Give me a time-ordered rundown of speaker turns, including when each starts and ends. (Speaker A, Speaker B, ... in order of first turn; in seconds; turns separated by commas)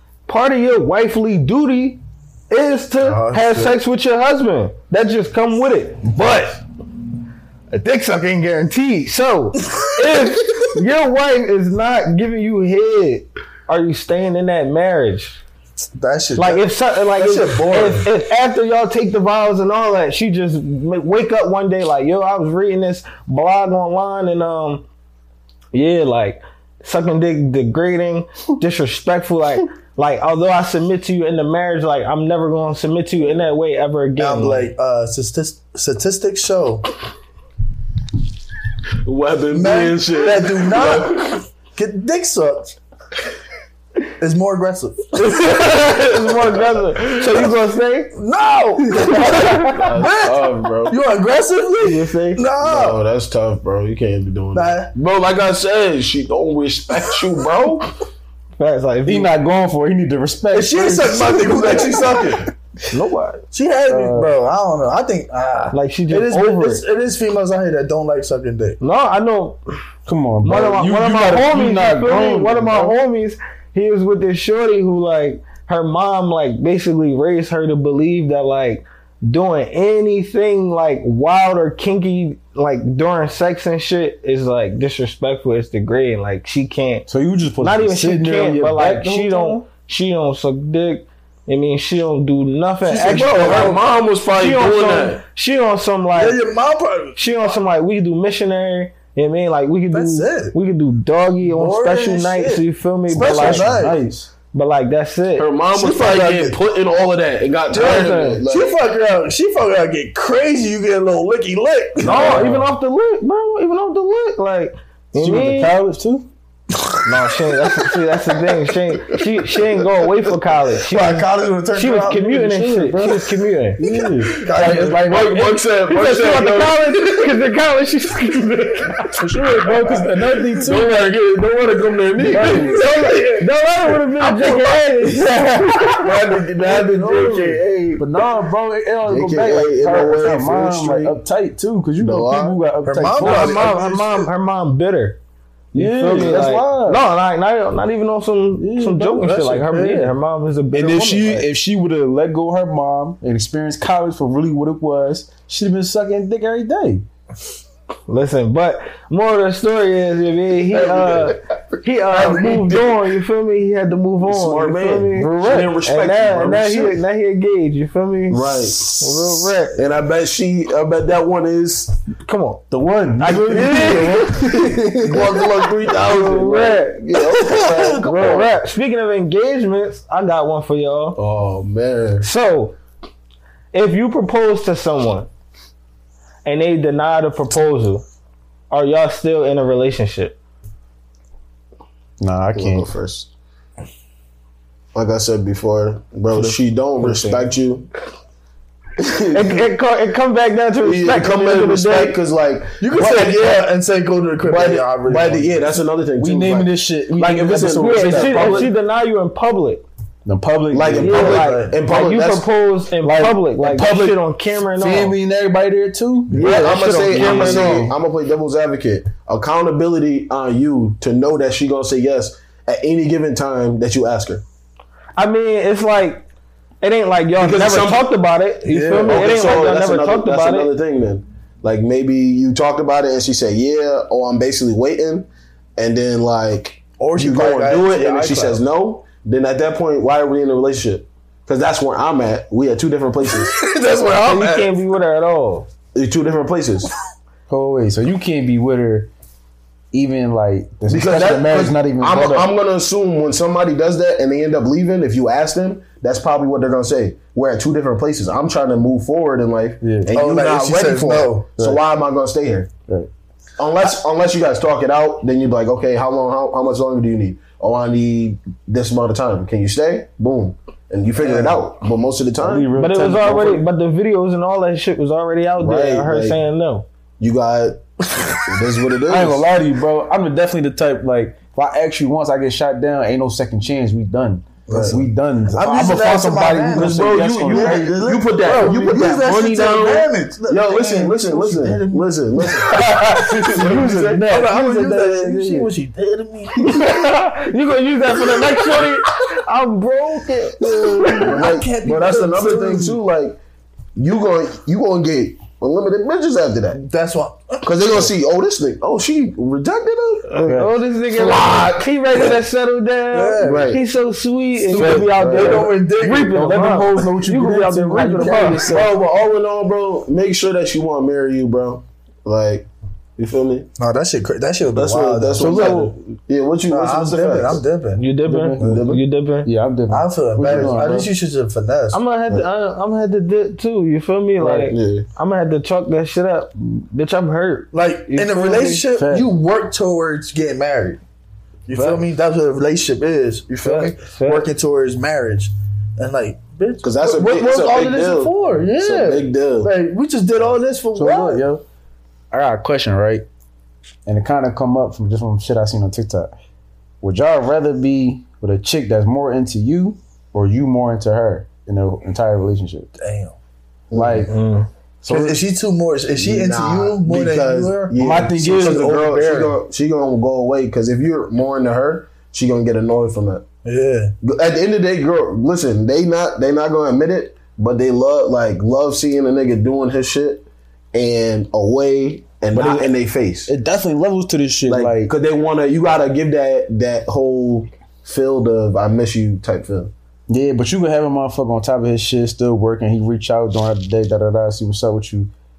Speaker A: 0.3-6.6, Speaker B: 3.0-3.8, Speaker A: 7.7-15.4, Speaker B: 15.9-18.1, Speaker A: 16.4-24.8, Speaker A: 25.7-34.7, Speaker B: 34.2-36.8, Speaker C: 39.0-41.4, Speaker B: 39.5-42.8, Speaker B: 44.2-45.5, Speaker A: 45.1-48.1, Speaker B: 48.1-53.0, Speaker A: 48.9-49.8, Speaker C: 49.3-51.0, Speaker A: 51.8-52.4, Speaker C: 52.6-57.9, Speaker B: 54.5-54.9, Speaker A: 58.6-59.3, Speaker D: 59.0-61.5, Speaker B: 60.5-62.4, Speaker C: 61.3-62.5, Speaker A: 62.9-63.4, Speaker B: 63.5-68.8, Speaker D: 63.9-64.3, Speaker A: 65.7-66.8, Speaker A: 68.8-69.6, Speaker D: 70.0-73.0, Speaker A: 70.4-87.1, Speaker D: 87.1-89.6, Speaker A: 87.6-96.4, Speaker B: 92.9-93.8, Speaker C: 93.0-95.2, Speaker B: 96.1-97.5, Speaker A: 97.2-103.8, Speaker B: 99.9-100.5, Speaker B: 101.4-104.0, Speaker D: 103.1-104.3, Speaker A: 104.5-105.5, Speaker C: 105.4-108.8, Speaker B: 105.7-106.6, Speaker A: 107.7-108.4, Speaker B: 108.4-112.4, Speaker D: 112.0-112.7, Speaker A: 112.0-115.8, Speaker D: 115.2-116.3, Speaker A: 117.0-123.8, Speaker B: 120.8-122.4, Speaker D: 122.2-125.6, Speaker C: 124.1-127.4, Speaker B: 124.3-125.1, Speaker A: 125.8-129.1, Speaker C: 128.9-133.0, Speaker D: 129.1-131.0, Speaker D: 132.3-132.9, Speaker A: 132.3-137.5, Speaker C: 135.9-138.1, Speaker B: 137.3-137.6, Speaker D: 138.0-143.7, Speaker C: 139.1-141.2, Speaker C: 142.0-142.6, Speaker B: 142.8-144.3, Speaker A: 143.2-145.2, Speaker D: 145.7-147.0, Speaker A: 145.7-151.5, Speaker C: 146.1-146.7, Speaker D: 148.6-150.1, Speaker D: 150.7-157.1, Speaker A: 158.1-169.8, Speaker C: 160.7-161.4, Speaker C: 162.1-163.0, Speaker C: 164.2-167.0, Speaker D: 165.1-165.8, Speaker C: 168.3-169.0, Speaker C: 169.7-171.9, Speaker A: 172.2-172.6, Speaker D: 172.7-175.1, Speaker A: 173.2-174.4, Speaker C: 173.2-178.5, Speaker A: 175.9-181.2, Speaker C: 181.2-182.3, Speaker A: 182.2-182.8, Speaker A: 183.7-185.3, Speaker A: 186.4-188.0, Speaker A: 188.7-190.4, Speaker D: 192.2-192.9, Speaker C: 192.5-193.3, Speaker C: 194.9-197.9, Speaker D: 196.3-197.5, Speaker C: 199.0-199.7, Speaker A: 199.3-202.2, Speaker C: 200.8-203.6, Speaker B: 202.8-205.6, Speaker C: 204.4-208.7, Speaker D: 206.2-208.7, Speaker A: 207.7-209.8, Speaker D: 210.2-211.4, Speaker C: 210.7-212.5, Speaker A: 211.0-215.2, Speaker B: 211.1-211.8, Speaker D: 213.0-214.2, Speaker C: 213.6-214.1, Speaker D: 214.8-217.9, Speaker A: 216.3-217.8, Speaker C: 216.3-224.4, Speaker A: 225.2-226.2, Speaker A: 226.8-230.7, Speaker C: 227.4-228.1, Speaker B: 228.7-229.3, Speaker C: 229.0-243.5, Speaker B: 237.0-238.6, Speaker B: 243.4-244.7, Speaker A: 244.2-245.7, Speaker C: 245.9-246.9, Speaker D: 247.5-249.1, Speaker D: 249.9-252.5, Speaker C: 250.9-262.7, Speaker D: 259.8-260.1, Speaker B: 260.1-261.5, Speaker C: 263.6-272.7, Speaker B: 271.2-271.6, Speaker D: 272.4-273.6, Speaker A: 272.8-276.9, Speaker C: 275.6-276.4, Speaker C: 277.2-279.4, Speaker D: 279.1-288.1, Speaker C: 284.7-285.0, Speaker B: 284.7-285.0, Speaker B: 285.5-296.9, Speaker C: 286.7-295.7, Speaker A: 288.6-289.0, Speaker A: 296.6-301.4, Speaker B: 300.6-303.0, Speaker C: 301.0-303.4, Speaker C: 303.9-306.8, Speaker B: 306.7-308.1, Speaker C: 307.6-310.3, Speaker A: 310.3-318.7, Speaker D: 310.4-310.7, Speaker C: 311.1-312.3, Speaker B: 313.1-313.8, Speaker C: 313.4-313.8, Speaker B: 314.6-316.6, Speaker C: 314.7-315.7, Speaker D: 316.3-318.9, Speaker C: 318.5-323.7, Speaker B: 323.8-325.8, Speaker C: 324.7-327.6, Speaker D: 325.4-325.8, Speaker A: 325.4-325.9, Speaker B: 326.7-328.1, Speaker A: 328.0-329.5, Speaker D: 328.3-328.9, Speaker C: 328.6-329.0, Speaker D: 329.4-331.1, Speaker B: 329.9-332.0, Speaker C: 330.4-330.9, Speaker A: 331.9-338.8, Speaker C: 334.4-335.1, Speaker B: 337.7-341.0, Speaker D: 338.9-339.3, Speaker B: 341.7-351.4, Speaker A: 341.7-342.0, Speaker A: 343.6-344.5, Speaker C: 346.8-349.7, Speaker D: 350.9-351.6, Speaker D: 352.3-353.2, Speaker D: 354.1-356.3, Speaker D: 357.0-362.9, Speaker B: 363.0-363.4, Speaker C: 363.9-364.3, Speaker D: 363.9-364.3, Speaker A: 364.3-364.7, Speaker D: 365.0-365.4, Speaker B: 365.0-367.9, Speaker C: 366.1-373.4, Speaker D: 367.9-369.6, Speaker B: 368.5-369.0, Speaker B: 373.6-374.1, Speaker C: 374.2-383.5, Speaker D: 382.5-382.9, Speaker D: 383.4-385.1, Speaker C: 384.7-389.9, Speaker D: 390.3-395.3